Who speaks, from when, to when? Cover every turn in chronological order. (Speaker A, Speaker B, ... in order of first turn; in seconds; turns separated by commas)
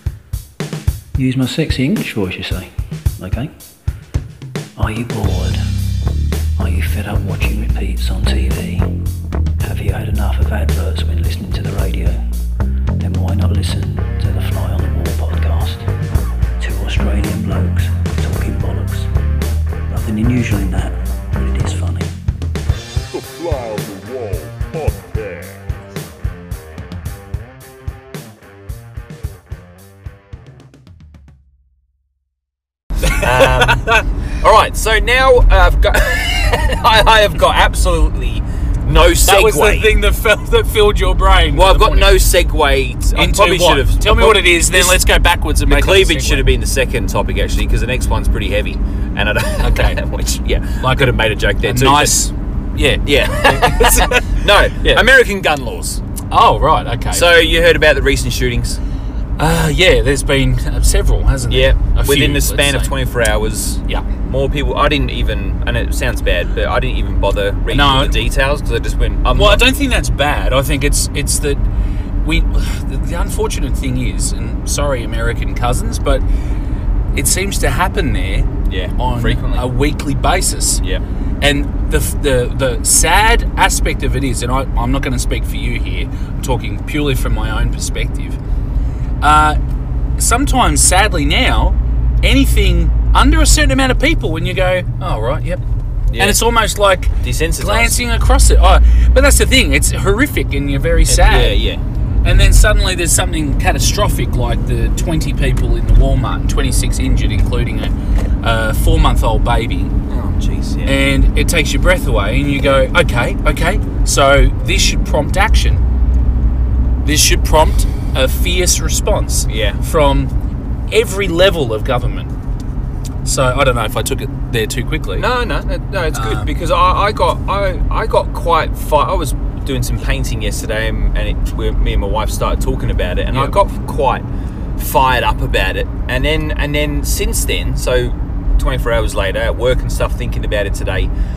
Speaker A: 1.2-3.5, Speaker A: 4.8-5.6, Speaker A: 6.6-8.9, Speaker A: 9.6-12.2, Speaker A: 13.0-15.9, Speaker A: 16.6-19.1, Speaker A: 19.9-22.1, Speaker B: 23.1-25.7, Speaker C: 33.1-39.9, Speaker D: 39.2-42.2, Speaker C: 41.5-45.1, Speaker D: 43.1-46.5, Speaker C: 45.6-52.3, Speaker D: 49.6-50.0, Speaker D: 50.8-55.1, Speaker C: 53.0-56.0, Speaker D: 56.3-57.3, Speaker C: 57.1-58.8, Speaker D: 59.4-62.9, Speaker C: 61.5-69.7, Speaker D: 67.7-68.2, Speaker D: 69.3-71.6, Speaker D: 72.2-76.2, Speaker D: 77.2-80.8, Speaker C: 78.7-79.7, Speaker D: 81.4-88.4, Speaker D: 89.2-89.6, Speaker D: 90.2-95.6, Speaker C: 96.1-96.4, Speaker D: 96.2-101.6, Speaker C: 97.2-98.1, Speaker C: 101.1-101.8, Speaker D: 102.2-110.0, Speaker C: 110.1-111.0, Speaker D: 110.9-115.8, Speaker D: 117.0-120.3, Speaker C: 119.5-119.8, Speaker D: 120.9-122.3, Speaker D: 123.2-125.3, Speaker C: 125.2-134.2, Speaker D: 126.1-126.5, Speaker C: 134.8-141.1